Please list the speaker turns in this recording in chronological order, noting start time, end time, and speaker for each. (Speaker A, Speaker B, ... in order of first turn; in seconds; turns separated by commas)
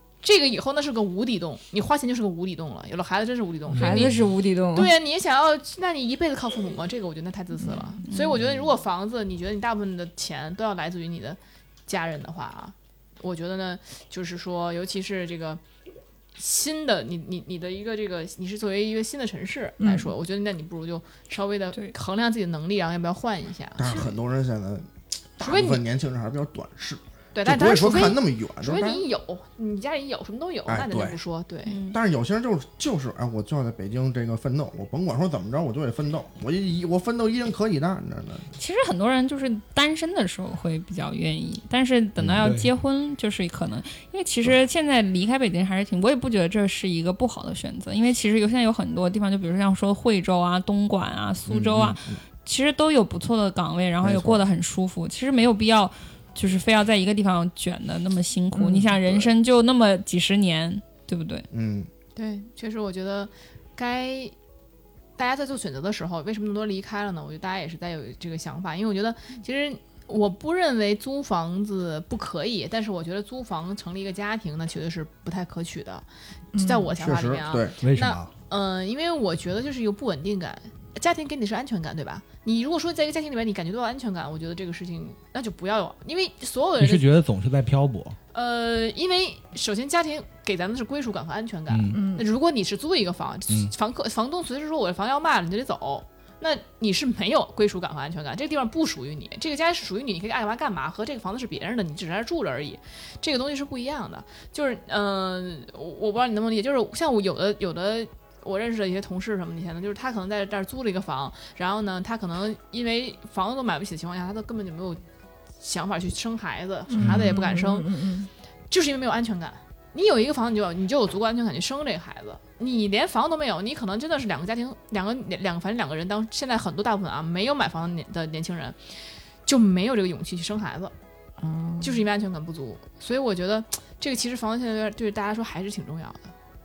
Speaker A: 0.2-15.6, Speaker B: 3.7-4.9, Speaker B: 7.6-7.9, Speaker C: 8.1-8.4, Speaker A: 16.4-24.1, Speaker B: 19.8-20.1, Speaker D: 23.8-29.0, Speaker A: 25.4-25.8, Speaker A: 27.3-31.8, Speaker D: 30.7-31.2, Speaker C: 31.7-32.0, Speaker D: 31.9-38.5, Speaker C: 38.6-61.5, Speaker E: 42.3-42.7, Speaker D: 51.5-52.2, Speaker D: 54.0-54.4, Speaker B: 58.6-58.9, Speaker D: 59.0-59.3, Speaker D: 61.5-61.9, Speaker A: 62.2-64.3, Speaker A: 65.2-76.0, Speaker B: 76.5-76.9, Speaker A: 76.6-87.0, Speaker D: 77.0-77.7, Speaker E: 77.8-78.3, Speaker E: 86.8-88.2, Speaker A: 88.3-115.0, Speaker E: 91.7-92.0, Speaker B: 91.9-92.3, Speaker A: 115.6-117.9, Speaker B: 116.9-118.3, Speaker E: 117.0-117.3, Speaker A: 118.7-128.8, Speaker A: 129.4-130.9, Speaker B: 131.4-132.1, Speaker A: 131.8-136.3